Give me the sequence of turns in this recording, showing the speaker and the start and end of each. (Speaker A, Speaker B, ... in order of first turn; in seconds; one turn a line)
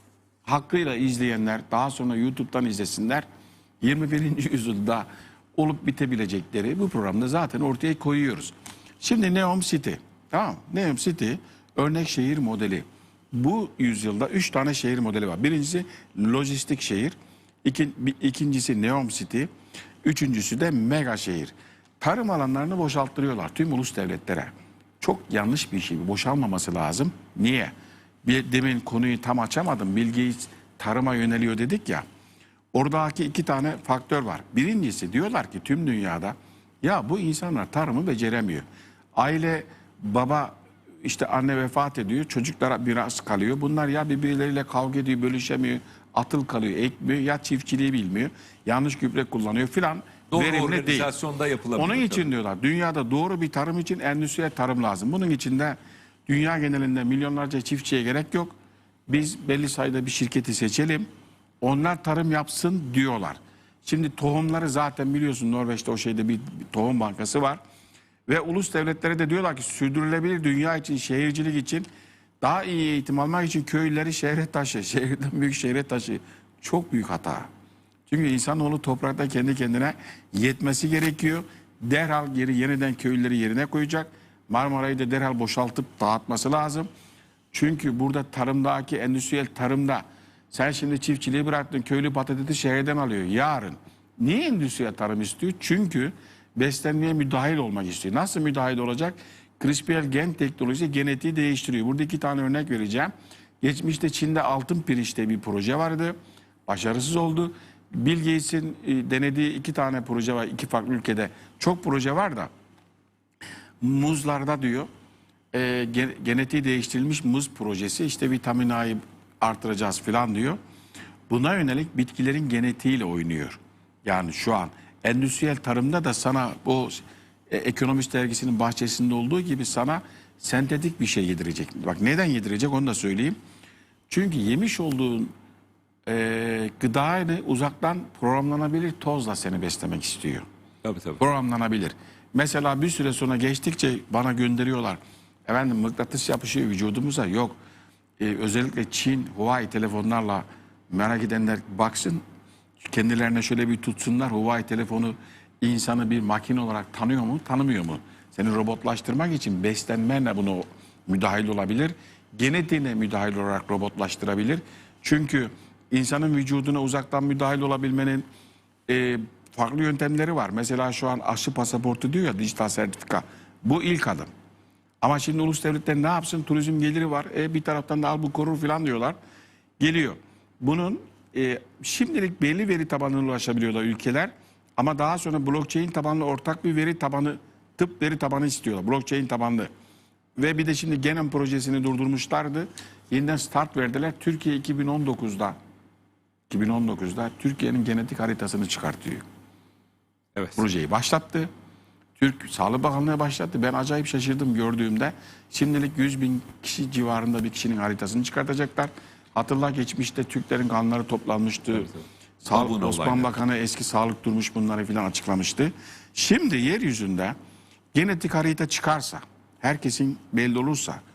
Speaker A: 0.5-3.2
Speaker A: 3.8-19.5
Speaker A: 20.0-27.7
Speaker A: 28.2-32.0
Speaker A: 32.7-38.6
Speaker A: 39.1-51.1
Speaker B: 50.3-52.3
Speaker A: 51.8-58.5
Speaker A: 59.1-61.1
Speaker A: 61.6-67.6
Speaker A: 68.3-71.9
Speaker A: 72.4-77.5
Speaker A: 78.1-86.9
Speaker A: 87.5-106.2
Speaker A: 106.7-112.5
Speaker A: 113.8-114.9
Speaker A: 115.5-120.6
Speaker A: 121.3-133.3
Speaker A: 134.1-135.3
Speaker A: 136.1-140.4
Speaker B: 140.8-141.2
Speaker A: 141.2-147.6
Speaker A: 148.2-152.2
Speaker A: 152.8-168.2
Speaker A: 168.9-174.3
Speaker A: 175.0-179.2
Speaker A: 179.8-189.7
Speaker A: 190.4-195.6
Speaker A: 196.5-199.2
Speaker B: 200.3-200.6
Speaker A: 200.6-201.5
Speaker A: 202.2-217.3
Speaker B: 211.8-213.3
Speaker A: 217.9-221.0